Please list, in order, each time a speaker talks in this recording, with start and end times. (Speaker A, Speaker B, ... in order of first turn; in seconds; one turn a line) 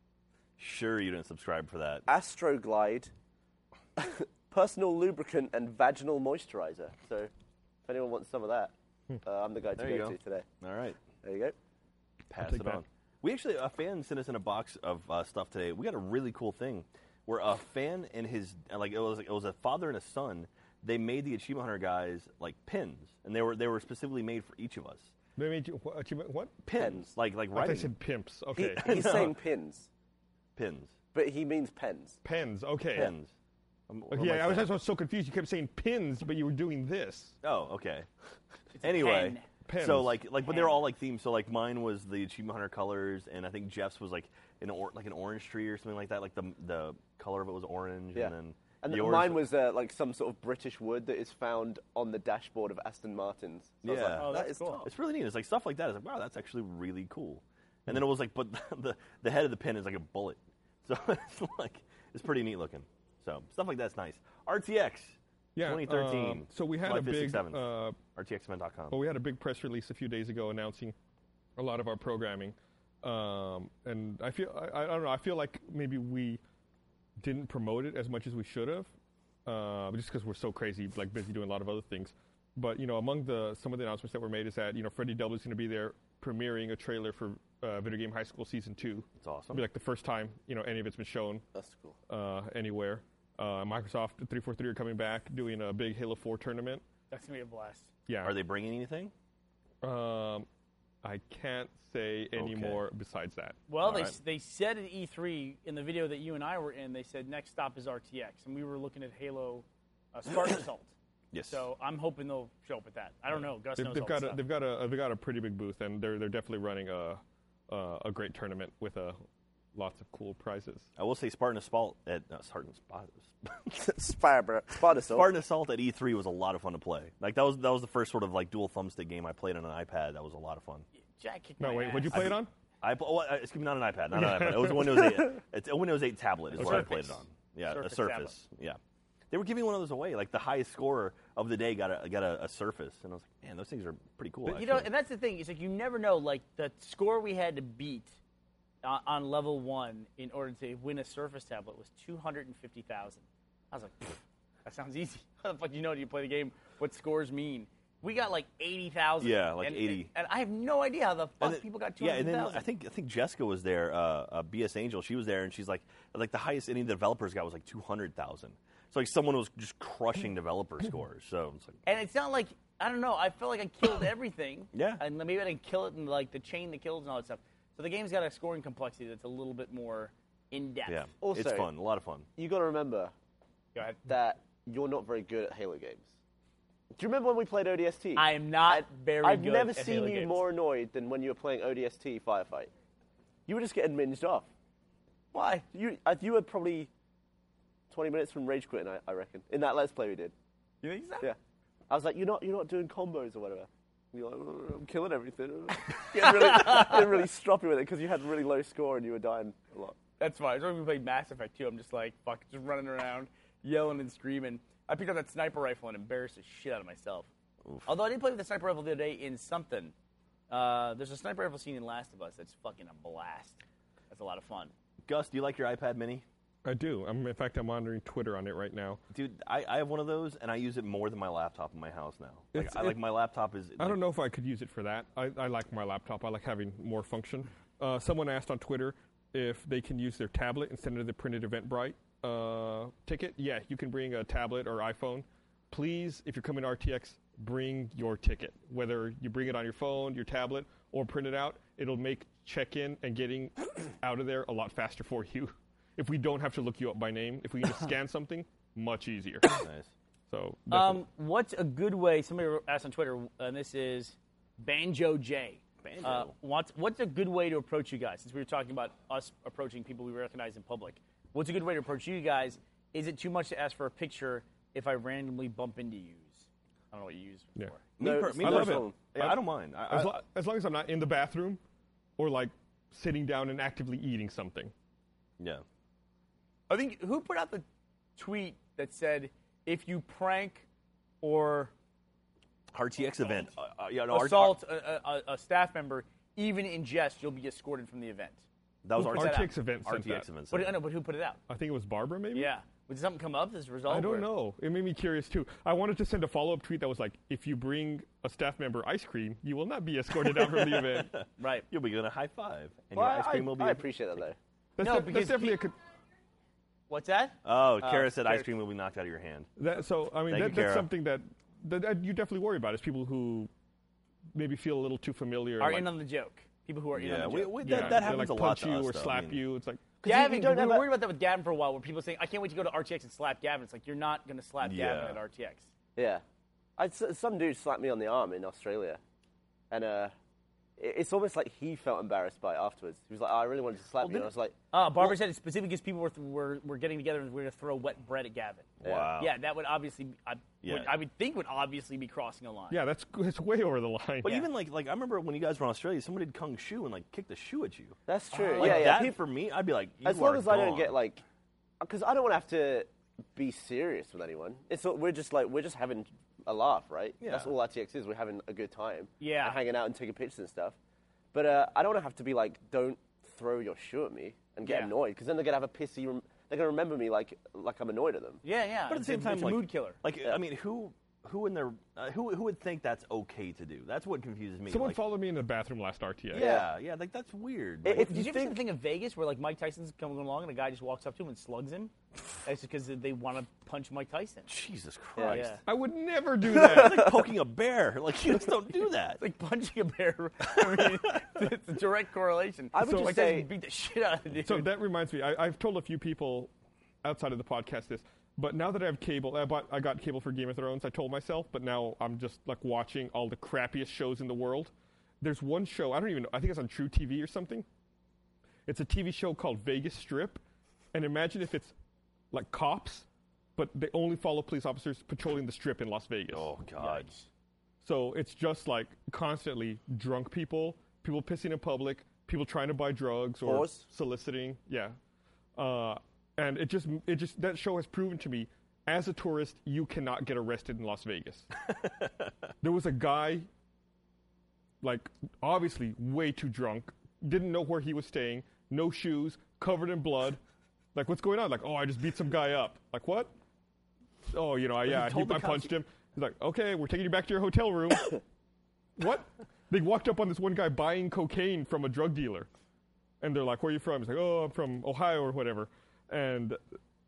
Speaker A: 0.6-2.0
Speaker B: 2.1-3.1
Speaker B: 4.0-7.3
Speaker B: 7.8-8.7
Speaker B: 9.2-10.4
Speaker A: 9.8-11.0
Speaker B: 11.2-11.5
Speaker A: 12.3-25.1
Speaker C: 12.4-12.8
Speaker C: 25.4-26.6
Speaker A: 26.6-27.9
Speaker B: 26.7-27.1
Speaker C: 27.5-29.0
Speaker B: 28.6-29.9
Speaker A: 28.8-29.4
Speaker A: 30.6-30.9
Speaker B: 31.1-32.2
Speaker C: 32.2-33.1
Speaker A: 32.9-33.3
Speaker A: 33.9-34.7
Speaker C: 34.1-37.4
Speaker A: 37.4-38.1
Speaker D: 38.7-39.5
Speaker A: 38.8-49.5
Speaker C: 39.6-40.2
Speaker B: 48.1-54.9
Speaker A: 53.8-67.6
Speaker D: 54.1-54.9
Speaker C: 65.5-68.0
Speaker A: 68.1-69.0
Speaker C: 68.9-70.9
Speaker C: 71.6-76.4
Speaker C: 77.2-78.9
Speaker C: 79.5-91.4
Speaker A: 89.2-89.7
Speaker B: 91.5-92.0
Speaker C: 92.1-96.8
Speaker D: 97.1-97.9
Speaker C: 98.1-98.3
Speaker A: 98.2-99.1
Speaker C: 99.8-100.5
Speaker C: 101.0-103.6
Speaker A: 102.3-102.8
Speaker D: 103.7-110.9
Speaker A: 103.8-104.2
Speaker A: 111.3-111.6
Speaker D: 111.5-114.4
Speaker C: 113.8-119.2
Speaker C: 119.7-120.9
Speaker A: 121.0-123.7
Speaker B: 123.7-125.3
Speaker A: 125.1-130.8
Speaker D: 131.2-132.3
Speaker C: 131.6-132.5
Speaker A: 132.1-138.8
Speaker C: 134.1-135.2
Speaker D: 136.5-138.3
Speaker C: 136.6-136.9
Speaker A: 139.3-144.9
Speaker D: 144.4-148.2
Speaker D: 148.8-162.7
Speaker A: 159.2-160.1
Speaker A: 161.4-171.8
Speaker D: 171.8-181.1
Speaker A: 174.7-175.0
Speaker A: 180.8-182.3
Speaker B: 181.2-181.7
Speaker B: 182.4-183.1
Speaker D: 183.7-184.0
Speaker B: 184.0-186.1
Speaker B: 186.9-192.7
Speaker D: 188.2-190.4
Speaker B: 193.5-194.5
Speaker D: 195.3-195.6
Speaker B: 195.7-196.9
Speaker B: 197.9-200.3
Speaker D: 200.8-201.3
Speaker B: 201.9-209.9
Speaker D: 206.5-206.9
Speaker D: 210.2-217.3
Speaker D: 217.8-219.9
Speaker D: 220.5-224.7
Speaker A: 225.1-226.2
Speaker C: 226.6-229.0
Speaker A: 229.1-234.0
Speaker C: 232.5-233.0
Speaker C: 233.8-259.5
Speaker A: 259.5-259.9
Speaker C: 260.3-261.0
Speaker D: 260.7-277.8
Speaker A: 265.8-266.3
Speaker A: 278.0-280.1
Speaker B: 278.0-279.0
Speaker C: 278.4-281.6
Speaker C: 282.2-284.7
Speaker A: 285.4-285.6
Speaker D: 286.7-287.6
Speaker D: 288.2-290.6
Speaker D: 291.2-291.7
Speaker A: 292.7-294.6
Speaker D: 294.1-298.4
Speaker A: 298.8-300.8
Speaker D: 299.0-299.5
Speaker C: 299.0-300.3
Speaker D: 300.5-301.4
Speaker C: 301.5-302.5
Speaker D: 302.3-304.3
Speaker C: 303.9-311.1
Speaker A: 310.2-313.9
Speaker D: 311.4-311.7
Speaker B: 312.9-314.4
Speaker C: 314.8-315.7
Speaker D: 314.8-315.6
Speaker D: 316.9-318.5
Speaker A: 317.4-319.5
Speaker C: 319.6-323.5
Speaker A: 320.3-320.9
Speaker C: 324.3-325.9
Speaker D: 325.6-328.0
Speaker A: 326.9-329.4
Speaker C: 327.6-329.8
Speaker B: 330.0-330.9
Speaker D: 330.0-335.7
Speaker A: 334.6-335.2
Speaker B: 335.9-336.2
Speaker B: 336.8-339.0
Speaker B: 339.7-340.1
Speaker B: 340.8-344.5
Speaker D: 344.0-352.8
Speaker A: 348.8-349.3
Speaker B: 348.8-349.1
Speaker A: 350.6-350.9
Speaker C: 352.7-354.3
Speaker A: 354.2-357.9
Speaker D: 354.2-354.5
Speaker B: 358.1-359.2
Speaker D: 358.3-359.0
Speaker A: 358.6-360.9
Speaker B: 360.0-361.2
Speaker B: 361.8-370.8
Speaker A: 367.2-367.5
Speaker D: 369.2-369.6
Speaker B: 371.3-378.4
Speaker D: 374.6-374.9
Speaker D: 378.4-380.0
Speaker A: 378.9-385.0
Speaker C: 384.7-386.4
Speaker A: 386.3-388.2
Speaker B: 386.3-386.7
Speaker B: 387.8-388.6
Speaker D: 387.9-391.9
Speaker D: 392.4-394.5
Speaker A: 394.5-395.6
Speaker B: 395.1-395.4
Speaker D: 395.3-395.6
Speaker C: 395.6-397.1
Speaker B: 396.5-397.1
Speaker A: 396.5-399.2
Speaker D: 399.2-404.7
Speaker A: 400.6-401.2
Speaker B: 402.7-403.5
Speaker C: 404.4-406.5
Speaker C: 407.0-417.6
Speaker C: 418.7-420.4
Speaker C: 420.9-421.7
Speaker C: 422.3-423.1
Speaker C: 423.6-426.5
Speaker A: 426.3-427.1
Speaker D: 426.8-427.3
Speaker C: 427.8-434.9
Speaker B: 433.4-433.8
Speaker C: 435.6-441.5
Speaker A: 441.8-442.1
Speaker C: 442.6-443.5
Speaker C: 444.8-450.4
Speaker C: 450.9-453.3
Speaker C: 454.3-458.2
Speaker A: 454.8-455.8
Speaker C: 459.0-462.5
Speaker C: 463.2-466.6